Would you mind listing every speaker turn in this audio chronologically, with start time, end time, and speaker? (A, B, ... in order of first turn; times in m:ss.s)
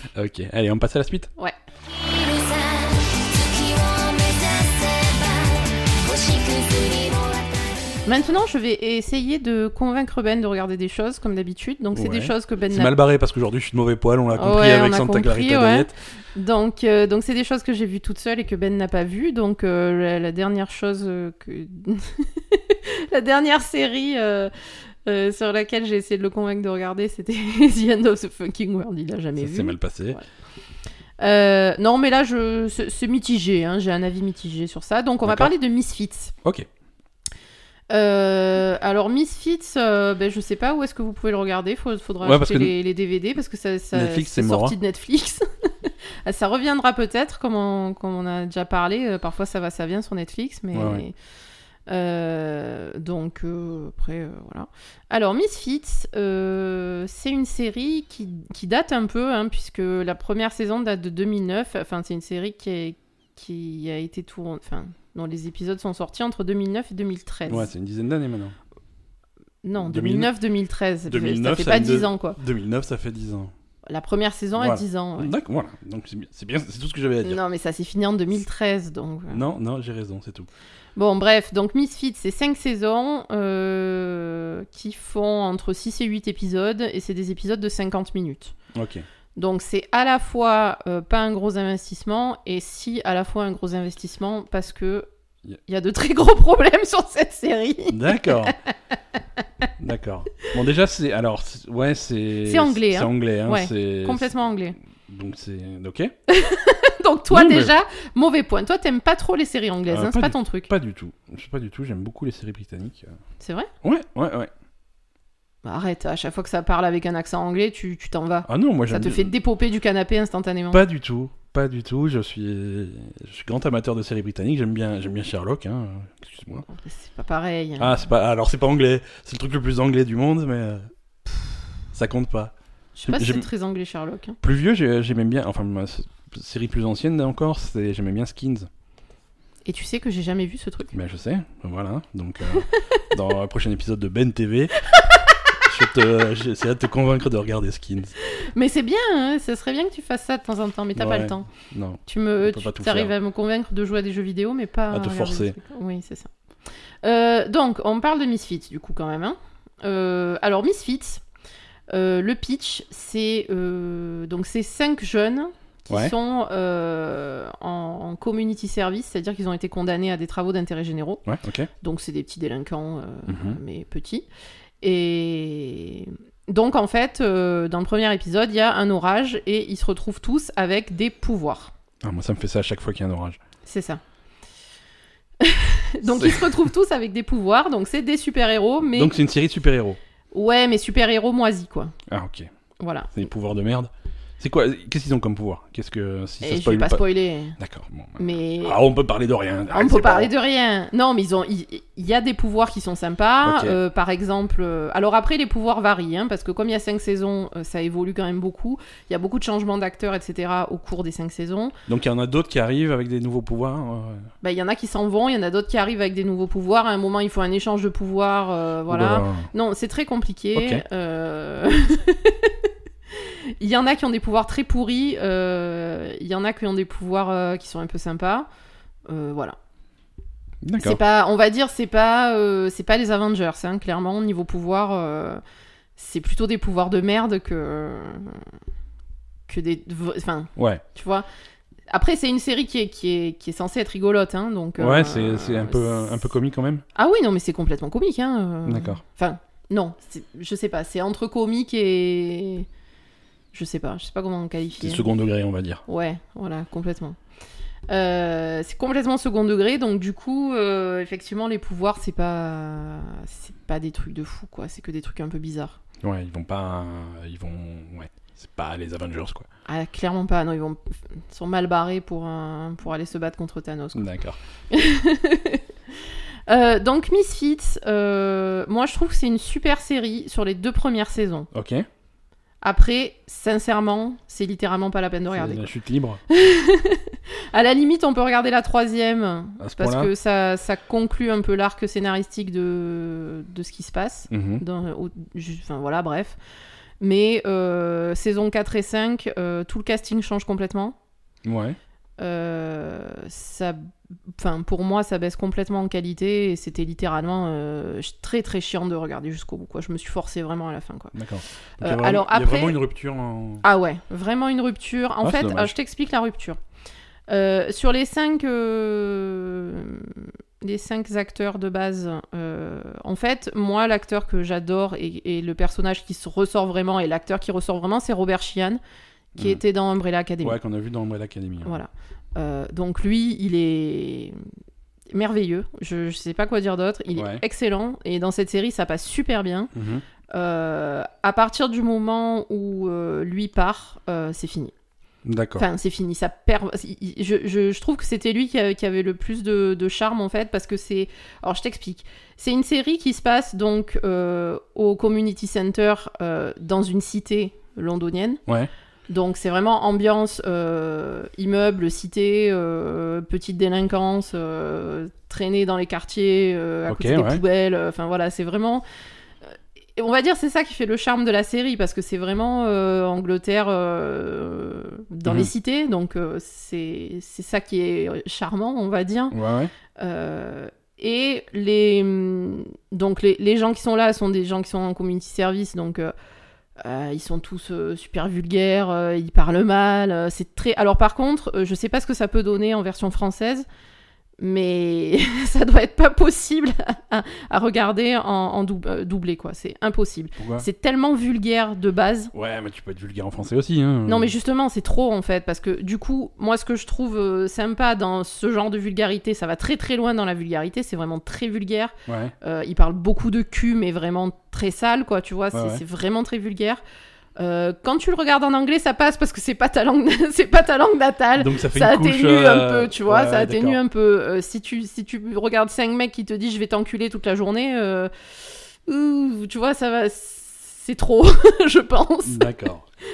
0:00.1-0:01.3 A
0:01.8-0:08.3 B
0:08.0-0:12.9 C
0:11.9-0:15.9 A
0:14.3-0:24.5 C
0:25.0-0:30.2 C
0:29.4-0:30.2 A
0:31.2-0:36.3 C
0:35.2-0:35.5 A
0:37.9-0:51.1 C
0:42.2-0:42.7 A
0:43.9-0:44.8 A
0:50.7-0:51.0 A
0:51.9-1:07.7 C
1:07.5-1:08.6 A
1:09.6-1:12.4 C
1:09.8-1:10.3 A
1:11.1-1:13.5 A
1:13.9-1:15.3 C
1:14.6-1:17.4 A
1:17.2-1:19.4 C
1:19.3-1:20.5 A
1:21.0-1:28.5 C
1:28.7-1:29.0 A
1:29.4-1:35.1 C
1:35.7-1:38.7 C
1:37.9-1:38.5 A
1:39.8-1:44.4 A
1:42.4-1:44.8 C
1:45.0-1:46.1 A
1:46.3-1:50.7 C
1:47.3-1:47.7 A
1:49.9-1:53.2 A
1:53.4-1:53.7 C
1:53.8-1:54.5 A
1:55.6-2:00.8 C
1:58.5-1:59.3 A
2:00.7-2:06.6 A
2:06.6-2:08.0 C
2:07.8-2:11.3 A
2:11.9-2:12.5 A
2:13.0-2:14.4 C
2:13.1-2:13.5 A
2:14.4-2:18.7 A
2:19.6-2:20.9 C
2:20.9-2:24.7 A
2:22.7-2:23.0 C
2:25.6-2:28.1 A
2:28.4-2:31.5 C
2:31.0-2:33.1 A
2:32.0-2:36.3 C
2:34.9-2:35.6 A
2:37.0-2:41.2 C
2:41.9-2:51.2 C
2:51.2-2:51.7 A
2:51.8-2:54.2 C
2:53.3-2:53.6 A
2:54.8-3:01.7 C
3:02.0-3:03.4 A
3:03.6-3:04.0 C
3:05.4-3:09.1 C
3:06.0-3:06.7 A
3:08.9-3:10.0 A
3:10.3-3:11.9 C
3:12.1-3:12.5 A
3:12.8-3:13.2 C
3:13.1-3:17.0 A
3:16.4-3:17.6 C
3:17.6-3:20.3 A
3:18.2-3:18.8 C
3:19.7-3:31.8 C
3:23.4-3:23.8 A
3:31.9-3:34.3 A
3:34.4-3:48.5 C
3:38.9-3:39.5 A
3:40.6-3:40.8 A
3:49.1-3:49.6 C
3:50.6-3:51.0 A
3:50.8-3:55.4 C
3:56.0-3:58.4 C
3:59.5-4:01.2 C
4:00.6-4:00.8 A
4:01.9-4:06.1 C
4:04.8-4:06.8 A
4:06.9-4:12.7 C
4:08.6-4:09.0 A
4:13.5-4:15.1 C
4:14.8-4:15.8 A
4:15.9-4:17.2 C
4:17.9-4:25.8 C
4:26.0-4:29.5 A
4:29.7-4:34.0 C
4:33.9-4:34.4 A
4:34.7-4:41.5 C
4:41.5-4:41.9 A
4:42.6-4:45.7 C
4:45.3-4:46.2 A
4:46.3-4:56.4 C
4:49.6-4:50.1 A
4:54.3-4:54.6 A
4:57.0-5:01.0 C
5:01.4-5:01.8 A
5:02.2-5:11.1 C
5:11.1-5:13.6 A
5:11.8-5:12.8 C
5:13.6-5:16.6 C
5:15.2-5:15.8 A
5:17.3-5:28.8 C
5:29.3-5:30.6 C
5:30.4-5:31.8 A
5:31.6-5:34.4 C
5:35.1-5:39.7 C
5:37.1-5:37.4 A
5:39.7-5:40.0 A
5:40.3-5:44.7 C
5:45.2-5:45.6 A
5:45.6-5:58.4 C
5:59.1-6:08.8 C
6:06.9-6:07.4 A
6:09.4-6:19.4 C
6:15.2-6:15.5 A
6:19.3-6:19.7 A
6:20.0-6:26.1 C
6:26.8-6:33.6 C
6:34.4-6:42.3 C
6:40.4-6:40.6 A
6:42.3-6:44.3 A
6:44.1-6:56.8 C
6:52.1-6:52.3 A
6:55.5-6:55.8 A
6:57.4-7:12.5 C
7:01.4-7:03.8 A
7:12.2-7:12.8 A